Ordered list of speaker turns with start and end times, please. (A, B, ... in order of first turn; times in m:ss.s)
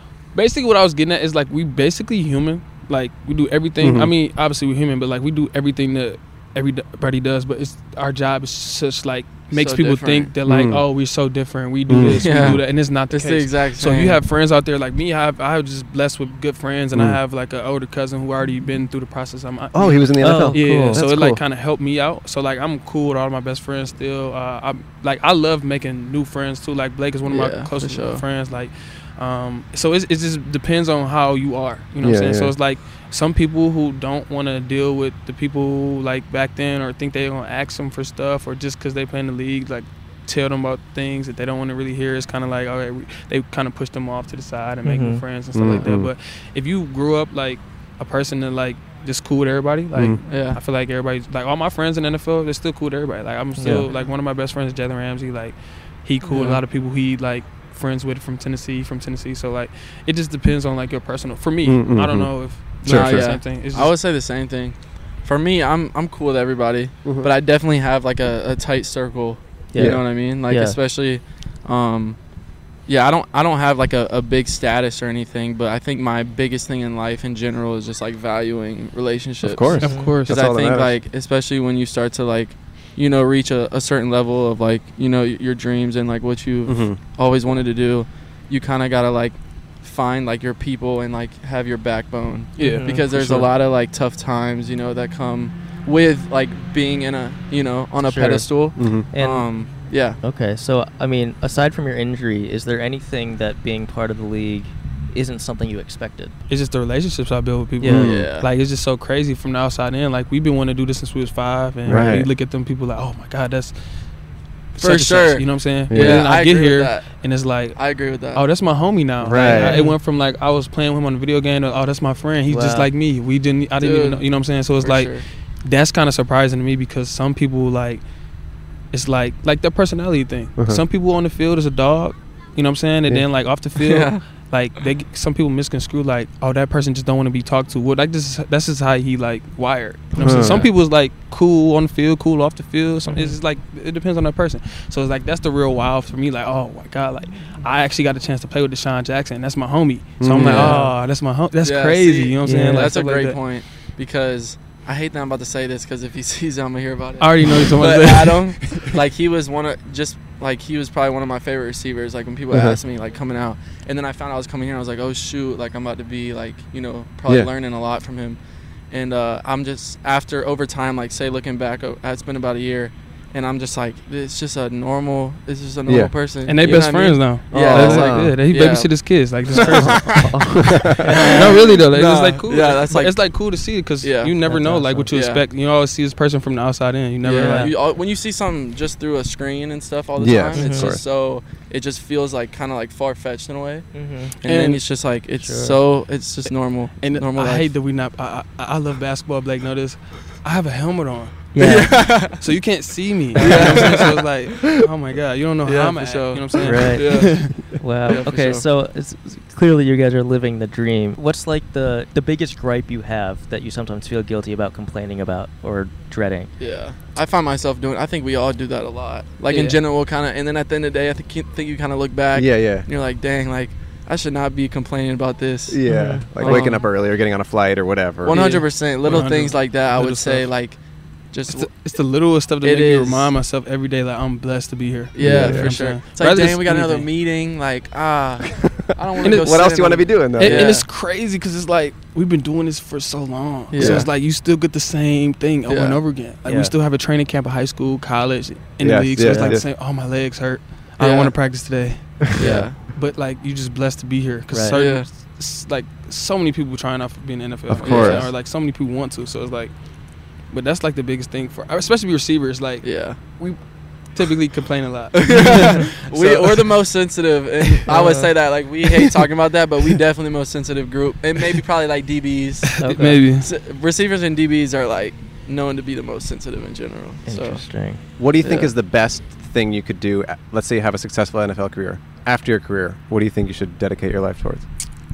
0:00.3-1:04.0 A
0:03.8-0:04.1 B
0:09.5-0:10.3 C
0:10.4-0:10.8 B
0:11.9-0:12.7 B
0:12.1-0:14.2 C
0:16.9-0:17.2 B
0:19.7-0:21.4 B
0:20.2-0:21.0 D
0:27.3-0:28.2 C
0:32.0-0:32.5 B
0:44.8-0:45.3 D
0:45.5-0:46.1 B
0:49.9-0:50.2 B
0:50.3-0:50.6 C
0:53.6-0:54.0 D
0:53.6-0:53.9 B
1:01.6-1:03.4 B
1:02.9-1:12.2 C
1:07.0-1:07.3 B
1:09.7-1:10.8 D
1:09.8-1:10.0 B
1:12.9-1:19.7 C
1:19.4-1:21.0 B
1:19.6-1:20.4 A
1:19.8-1:20.3 D
1:20.3-1:40.2 C
1:26.6-1:27.0 B
1:32.6-1:32.9 A
1:32.6-1:33.4 D
1:32.9-1:33.5 B
1:38.0-1:46.3 D
1:38.1-1:39.1 B
1:46.5-1:53.8 A
1:47.8-1:48.2 D
1:47.8-1:48.4 B
1:48.0-1:48.5 C
1:51.8-1:52.3 B
1:54.7-1:57.8 A
1:54.8-1:57.1 C
1:55.9-1:56.3 B
1:57.7-1:58.4 C
1:58.3-2:08.0 A
1:59.2-1:59.8 B
1:59.5-2:00.0 D
2:02.5-2:02.9 D
2:03.8-2:04.2 C
2:04.8-2:05.2 C
2:08.9-2:33.4 A
2:10.6-2:10.8 B
2:13.8-2:14.2 C
2:20.2-2:20.7 B
2:20.4-2:20.7 D
2:23.1-2:23.4 D
2:30.2-2:30.8 B
2:30.3-2:31.0 D
2:31.6-2:48.4 C
2:32.4-2:32.9 D
2:37.2-2:39.0 A
2:42.5-2:42.8 B
2:48.9-3:00.3 C
2:55.9-2:56.1 B
2:56.4-3:07.7 A
2:57.4-2:58.5 B
2:59.5-3:01.6 B
3:01.1-3:03.1 C
3:04.0-3:04.4 C
3:04.3-3:05.2 D
3:05.1-3:05.4 C
3:07.2-3:07.7 D
3:07.2-3:13.9 C
3:10.2-3:11.0 B
3:10.4-3:11.0 D
3:13.9-3:14.4 D
3:14.4-3:14.8 A
3:14.4-3:17.7 C
3:15.3-3:15.8 D
3:17.0-3:21.5 A
3:21.5-3:22.3 D
3:21.6-3:22.4 C
3:22.4-3:27.7 A
3:23.3-3:24.2 C
3:23.4-3:23.8 D
3:23.5-3:23.9 B
3:25.6-3:27.4 C
3:26.6-3:27.8 B
3:26.6-3:36.5 D
3:28.0-3:28.6 C
3:36.6-3:45.8 C
3:39.5-3:39.8 D
3:42.3-3:42.9 B
3:45.7-3:48.6 B
3:45.8-3:46.7 D
3:46.1-3:46.7 A
3:46.4-3:46.9 C
3:48.2-3:50.8 C
3:48.3-3:50.5 A
3:51.3-3:51.7 C
3:51.5-3:57.1 A
3:52.6-3:53.3 C
3:55.1-4:00.9 C
3:55.2-3:55.7 B
3:55.2-3:55.8 D
3:58.6-4:00.8 B
3:59.2-3:59.6 A
4:00.2-4:19.7 A
4:03.7-4:04.0 C
4:03.8-4:04.1 B
4:05.7-4:06.0 C
4:06.4-4:06.8 D
4:08.8-4:09.7 B
4:11.0-4:11.4 C
4:12.2-4:12.6 B
4:12.3-4:12.8 C
4:12.4-4:12.7 D
4:14.5-4:14.8 D
4:14.7-4:15.0 C
4:17.7-4:18.3 B
4:17.9-4:18.3 C
4:20.4-4:23.6 A
4:22.8-4:23.2 C
4:24.1-4:26.8 A
4:25.1-4:37.6 C
4:27.7-4:28.3 A
4:32.8-4:33.3 D
4:32.8-4:33.5 A
4:37.2-4:38.6 D
4:38.2-4:44.6 B